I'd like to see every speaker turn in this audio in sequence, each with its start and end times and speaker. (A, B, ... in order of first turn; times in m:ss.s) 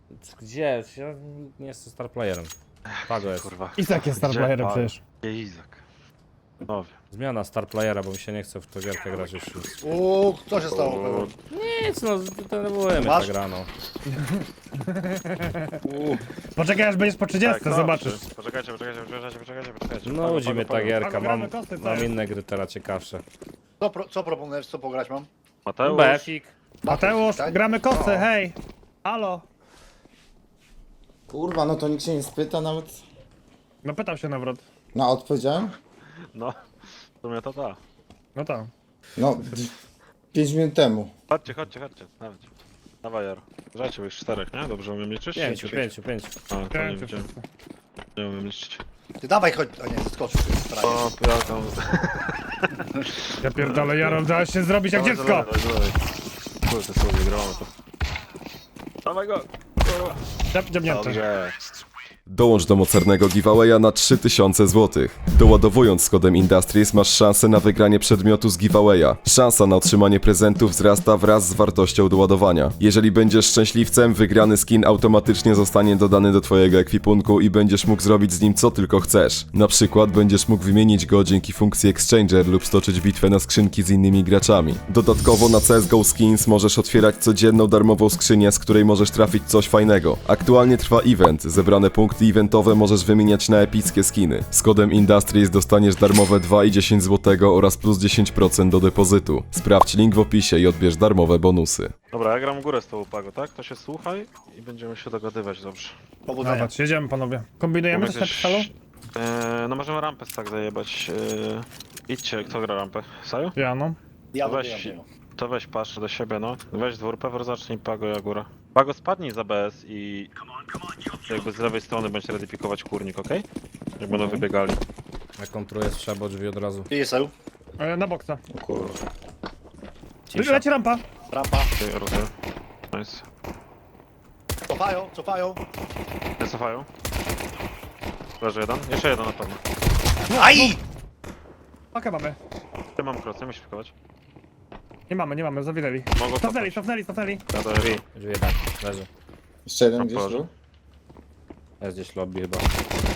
0:00.2-0:02.5 A
0:02.9-0:05.8 B
0:03.1-0:03.5 A
0:03.8-0:05.0 C
0:06.7-0:07.0 B
0:07.1-0:09.7 A
0:09.8-0:11.3 D
0:10.6-0:11.3 B
0:11.5-0:13.7 A
0:13.0-0:13.3 D
0:14.1-0:15.8 C
0:15.8-0:16.3 D
0:16.6-0:18.2 C
0:17.4-0:21.0 B
0:20.0-0:23.2 A
0:21.0-0:22.2 C
0:23.8-0:25.3 D
0:25.7-0:26.3 B
0:25.8-0:26.5 A
0:26.8-0:27.6 D
0:26.9-0:29.4 C
0:31.3-0:33.0 E
0:33.8-0:34.6 C
0:34.9-0:35.8 E
0:36.3-0:36.6 B
0:37.2-0:37.8 B
0:38.4-0:38.7 C
0:39.2-0:39.7 E
0:40.3-0:41.1 E
0:41.3-0:42.5 B
0:43.0-0:45.7 B
0:45.4-0:46.3 A
0:45.4-0:45.9 D
0:46.5-0:47.3 B
0:46.7-0:47.4 C
0:48.2-0:48.8 B
0:49.2-0:51.1 D
0:50.8-0:54.2 B
0:53.4-0:55.5 C
0:54.9-0:56.0 B
0:56.7-0:57.7 B
0:59.0-1:00.2 B
1:00.5-1:01.2 C
1:00.8-1:01.6 B
1:02.3-1:41.9 F
1:42.1-1:46.0 B
1:46.3-1:46.7 D
1:46.4-1:48.7 C
1:47.9-1:53.6 B
1:53.6-1:54.0 C
1:54.3-1:55.1 D
1:54.4-2:00.3 B
2:01.3-2:03.4 B
2:04.0-2:04.8 B
2:04.2-2:04.5 A
2:05.4-2:06.9 A
2:06.9-2:07.3 D
2:07.8-2:08.4 C
2:08.5-2:09.0 E
2:08.7-2:09.0 B
2:10.3-2:10.6 A
2:10.4-2:11.0 C
2:11.3-2:11.7 D
2:11.8-2:12.3 B
2:12.9-2:13.2 B
2:14.7-2:15.6 D
2:16.4-2:16.9 B
2:18.4-2:19.6 B
2:20.3-2:20.8 C
2:20.3-2:20.8 D
2:21.9-2:22.4 C
2:23.0-2:23.9 B
2:25.1-2:27.5 C
2:26.2-2:26.8 B
2:27.5-2:28.0 B
2:27.7-2:29.1 A
2:29.7-2:30.5 E
2:30.0-2:30.5 B
2:31.8-2:32.7 A